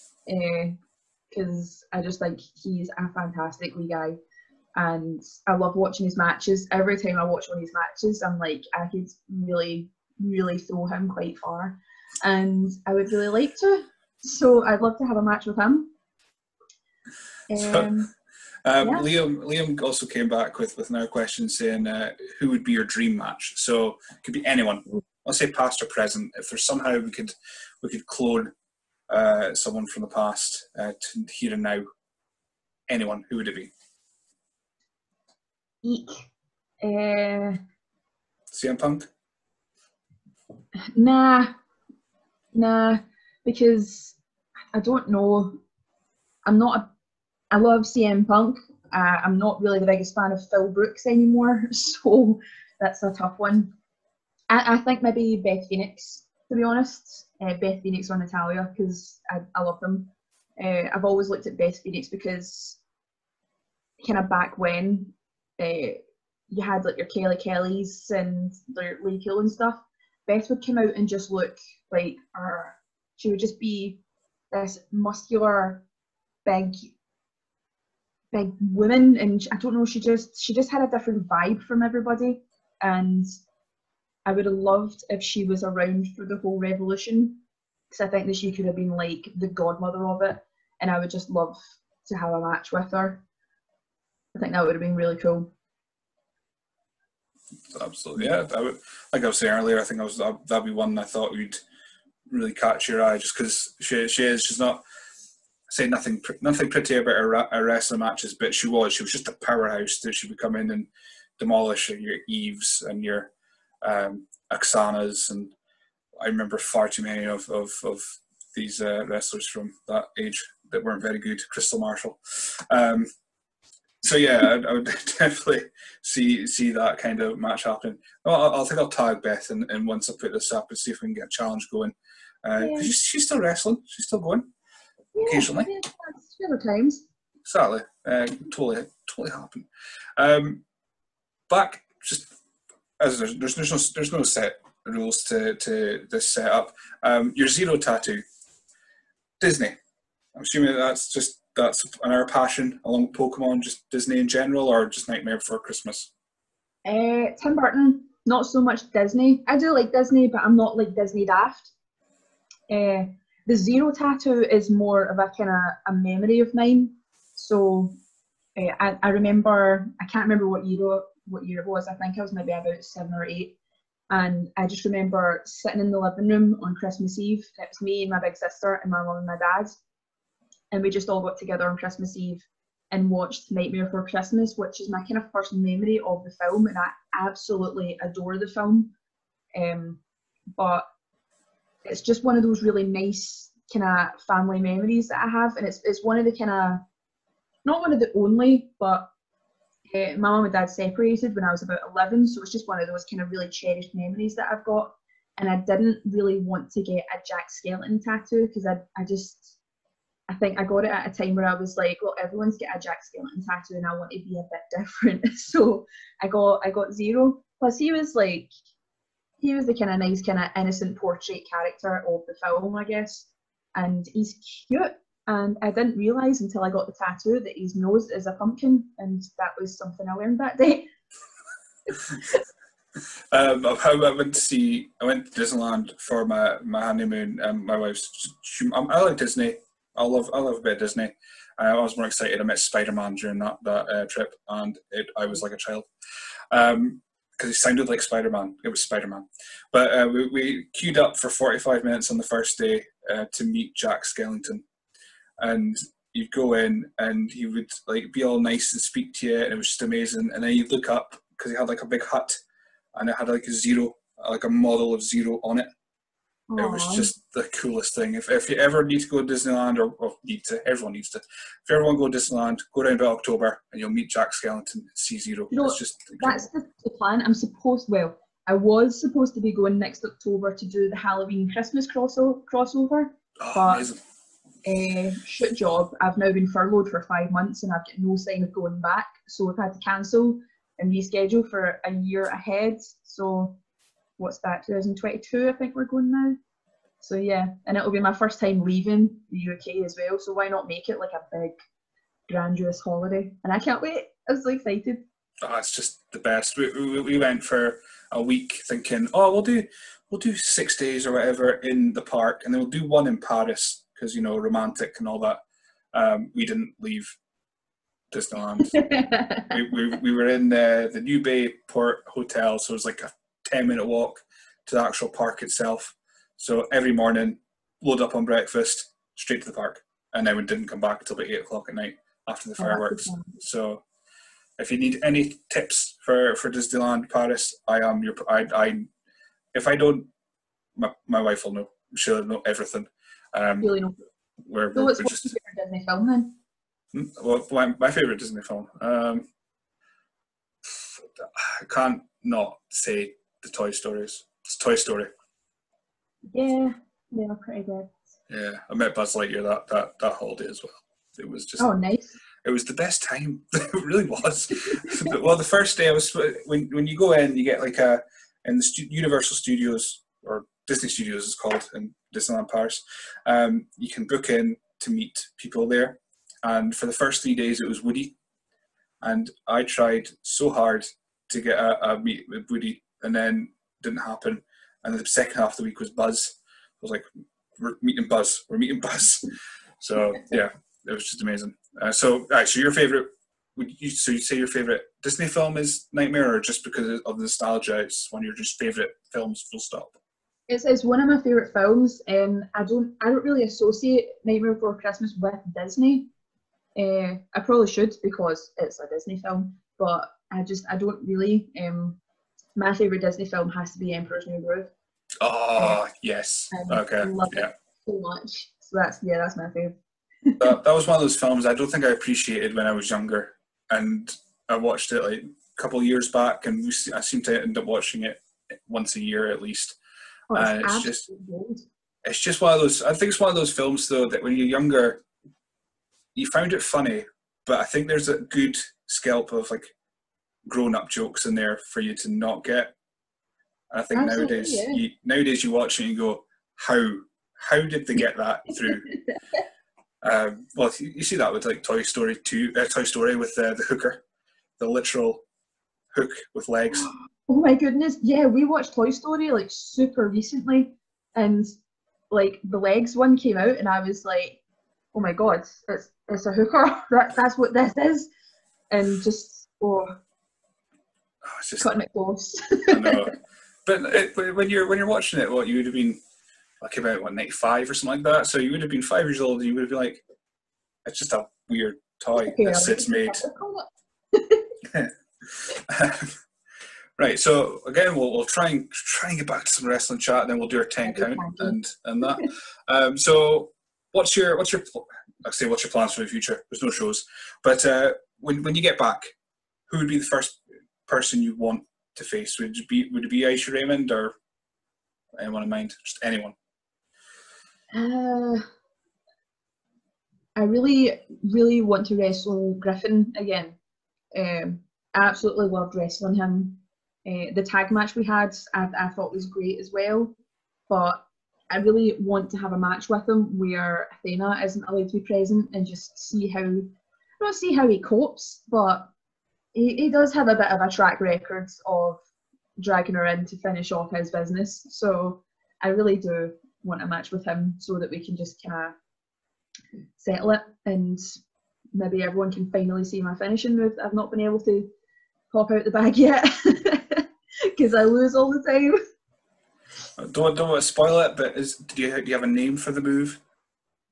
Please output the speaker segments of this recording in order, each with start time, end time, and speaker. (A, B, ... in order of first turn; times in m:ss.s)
0:00.3-0:00.8 A
0:01.3-0:04.2 A
0:04.8-0:15.9 A
0:17.5-0:18.1 A
0:17.6-0:17.9 B
0:18.6-0:28.5 B
0:18.8-0:19.1 A
0:29.1-0:31.8 B
0:32.9-0:33.7 B
0:35.8-0:36.2 A
0:36.8-0:37.6 A
0:38.5-0:39.1 B
0:40.9-0:41.5 A
0:42.5-0:44.2 A
0:44.7-0:45.6 A
0:46.4-0:46.9 A
0:47.5-0:53.7 A
0:54.5-1:02.8 A
1:04.0-1:15.8 A
1:16.4-1:16.9 A
1:18.3-1:23.3 A
1:24.2-1:27.4 A
1:27.9-1:33.2 A
1:34.3-1:35.5 A
1:37.7-1:41.6 B
1:42.3-1:44.8 B
1:45.7-1:53.3 B
1:53.8-1:55.5 B
1:56.2-2:03.1 B
2:04.0-2:14.5 B
2:12.6-2:12.9 A
2:15.1-2:17.0 A
2:15.2-2:15.7 B
2:17.4-2:20.6 B
2:21.5-2:22.3 B
2:23.0-2:28.2 B
2:29.4-2:29.8 B
2:30.3-2:36.1 B
2:36.8-2:41.7 A
2:42.7-2:47.9 A
2:48.6-2:53.6 A
2:54.1-2:59.8 A
3:00.7-3:08.9 A
3:09.5-3:10.0 A
3:10.6-3:10.8 A
3:11.8-3:16.8 A
3:17.6-3:19.1 A
3:19.9-3:29.6 A
3:30.3-3:38.5 A
3:39.4-3:50.9 A
3:53.3-4:05.9 B
4:06.5-4:14.6 B
4:15.4-4:22.4 B
4:22.9-4:25.7 B
4:26.5-4:27.1 A
4:26.6-4:36.5 B
4:35.5-4:43.9 A
4:43.4-4:44.0 B
4:44.6-4:53.6 A
4:54.2-4:56.4 A
4:57.0-5:01.5 A
5:02.3-5:05.0 A
5:05.4-5:15.4 B
5:15.9-5:17.2 B
5:18.1-5:18.8 B
5:18.7-5:19.5 A
5:19.5-5:33.8 B
5:32.6-5:33.4 A
5:34.6-5:38.9 B
5:39.5-5:40.1 B
5:40.8-5:43.8 B
5:43.6-5:44.0 A
5:44.4-5:45.3 B
5:44.7-5:46.3 A
5:46.9-5:49.2 B
5:50.7-5:55.1 B
5:56.3-5:57.9 A
5:58.3-6:01.7 B
6:01.6-6:02.2 A
6:02.4-6:18.2 B
6:19.0-6:39.9 B
6:40.5-6:46.1 A
6:46.8-6:52.0 A
6:52.6-6:54.7 A
6:55.2-6:57.5 B
6:56.5-7:00.5 A
7:00.4-7:09.8 B
7:10.3-7:11.6 A
7:10.3-7:11.0 B
7:12.0-7:15.0 B
7:16.1-7:19.7 B
7:20.4-7:22.7 B
7:23.7-7:28.9 B
7:23.9-7:24.8 A
7:30.0-7:34.0 B
7:34.6-7:35.2 B
7:35.9-7:36.9 B
7:37.3-7:41.5 A
7:42.1-7:44.4 A
7:44.9-7:48.1 A
7:48.7-7:50.0 A
7:51.2-7:51.8 B
7:51.6-7:53.1 A
7:52.7-7:56.0 B
7:56.6-8:00.0 B
8:00.8-8:03.2 B
8:02.2-8:04.5 A
8:04.6-8:06.1 B
8:07.0-8:19.1 B
8:10.8-8:11.6 A
8:19.7-8:24.1 B
8:25.2-8:26.3 B
8:27.7-8:28.4 A
8:30.4-8:33.6 A
8:34.1-8:40.1 A
8:40.7-8:46.7 A
8:47.2-8:48.9 A
8:49.5-8:52.0 A
8:52.6-8:58.7 A
9:00.0-9:01.0 A
9:01.7-9:04.7 A
9:05.3-9:08.8 A
9:10.0-9:13.2 B